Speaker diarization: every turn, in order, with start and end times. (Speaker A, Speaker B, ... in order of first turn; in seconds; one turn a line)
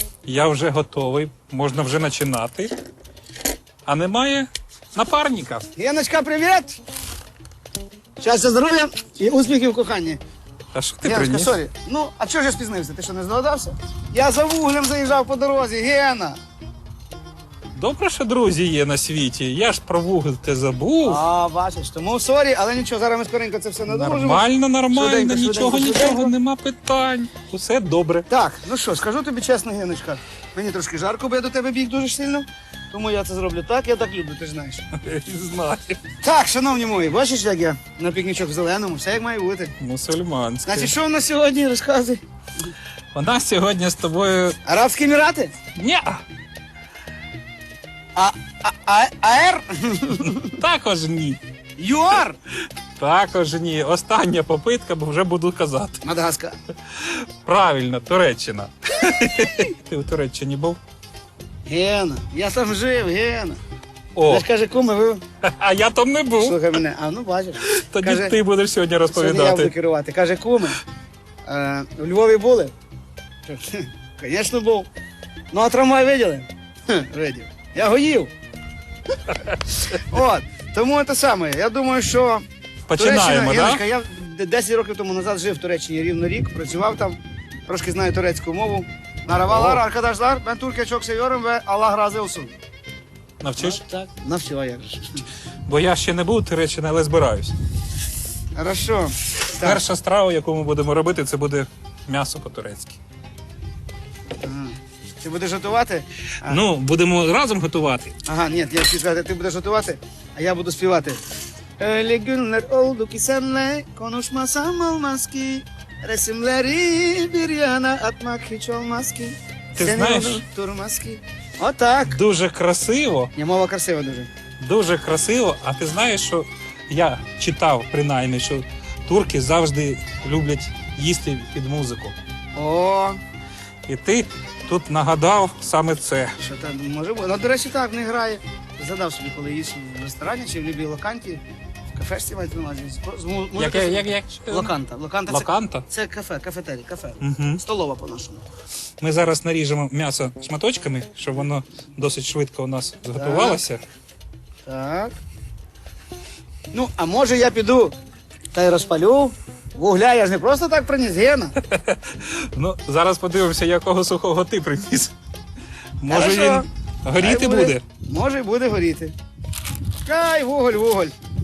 Speaker A: 0.2-2.7
Speaker A: 3.8-5.7
Speaker B: 5.8-6.8
Speaker B: 8.2-10.2
Speaker A: 10.7-11.5
Speaker B: 11.0-16.4
Speaker A: 17.7-21.2
Speaker B: 21.0-26.3
Speaker A: 23.9-28.2
Speaker B: 28.3-34.9
Speaker A: 34.9-36.0
Speaker B: 36.2-39.7
Speaker A: 39.8-40.9
Speaker B: 40.6-42.2
Speaker A: 43.1-44.6
Speaker B: 44.6-45.5
Speaker A: 45.7-46.2
Speaker B: 48.1-50.5
Speaker A: 50.3-51.4
Speaker B: 51.8-52.4
Speaker A: 53.0-56.0
Speaker B: 56.0-56.5
Speaker A: 56.9-60.8
Speaker B: 61.7-63.6
Speaker A: 64.2-64.5
Speaker B: 64.2-65.2
Speaker A: 65.4-66.6
Speaker B: 66.4-68.3
Speaker A: 67.7-69.7
Speaker B: 69.1-70.8
Speaker B: 71.5-72.7
Speaker B: 73.4-74.9
Speaker B: 75.5-78.3
Speaker B: 79.4-82.5
Speaker A: 82.9-83.8
Speaker B: 83.0-92.5
Speaker A: 89.5-89.8
Speaker A: 93.4-93.8
Speaker B: 93.6-95.2
Speaker A: 95.7-97.5
Speaker B: 98.5-99.8
Speaker A: 99.6-103.0
Speaker B: 104.4-106.6
Speaker A: 106.5-108.1
Speaker B: 108.2-111.2
Speaker B: 111.8-122.2
Speaker A: 119.8-120.4
Speaker A: 122.1-123.3
Speaker B: 123.3-124.3
Speaker A: 124.6-132.2
Speaker B: 132.5-133.2
Speaker A: 133.8-136.3
Speaker B: 136.4-141.4
Speaker B: 141.9-148.4
Speaker A: 143.6-144.7
Speaker A: 145.3-145.8
Speaker A: 147.2-147.6
Speaker A: 149.0-153.8
Speaker B: 153.2-153.6
Speaker B: 154.7-155.1
Speaker B: 156.7-157.9
Speaker B: 158.5-161.5
Speaker A: 161.6-165.1
Speaker A: 166.0-167.8
Speaker B: 166.1-169.1
Speaker B: 170.1-171.1